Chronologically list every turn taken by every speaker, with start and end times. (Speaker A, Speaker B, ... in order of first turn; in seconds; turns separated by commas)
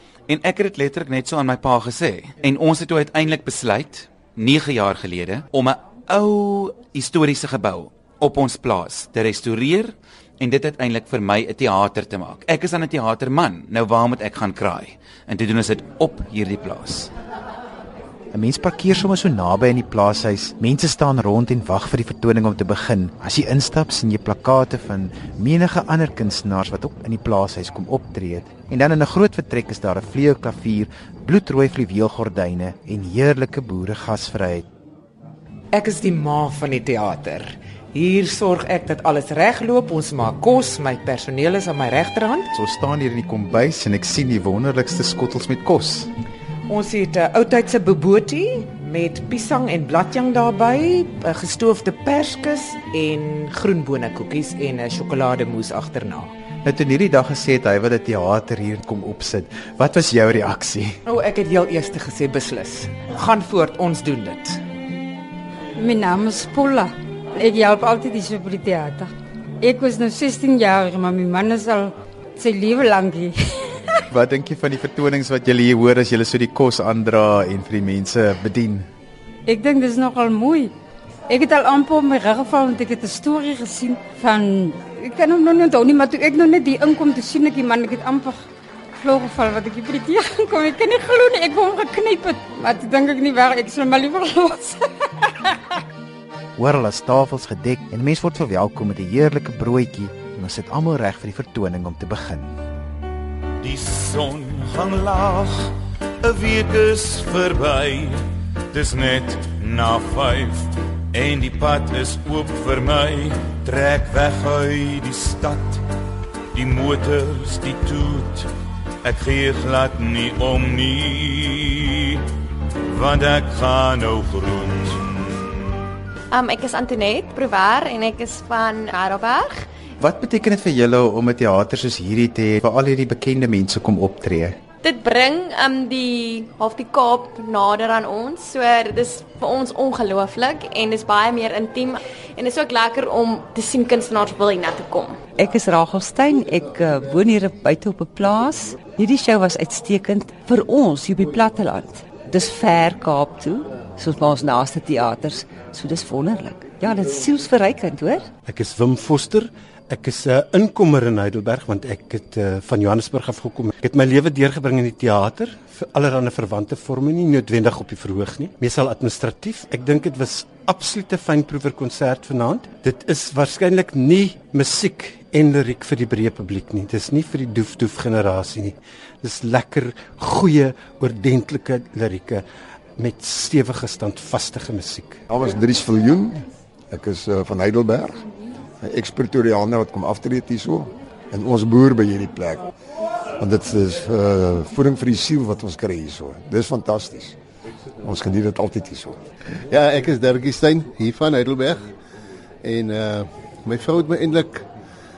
Speaker A: 0.3-17.1, Speaker B: 18.3-34.7, Speaker C: 35.8-42.5, Speaker B: 42.5-46.1, Speaker C: 46.7-56.3, Speaker B: 56.6-61.0, Speaker C: 61.1-64.6, Speaker D: 65.8-69.1, Speaker D: 69.6-73.8, Speaker B: 74.1-78.9, Speaker D: 79.5-80.7, Speaker D: 81.3-88.4, Speaker D: 89.0-95.7, Speaker B: 96.6-102.5, Speaker E: 103.6-115.8, Speaker E: 116.5-118.5, Speaker E: 119.0-122.2, Speaker E: 122.9-125.4, Speaker F: 126.3-129.7, Speaker B: 130.0-134.6, Speaker F: 134.8-145.2, Speaker G: 145.4-158.3, Speaker H: 158.5-182.4, Speaker H: 183.0-185.2, Speaker I: 185.3-188.2, Speaker I: 188.8-192.6, Speaker I: 193.4-197.3, Speaker I: 198.0-199.2, Speaker J: 199.7-201.8, Speaker J: 202.6-204.6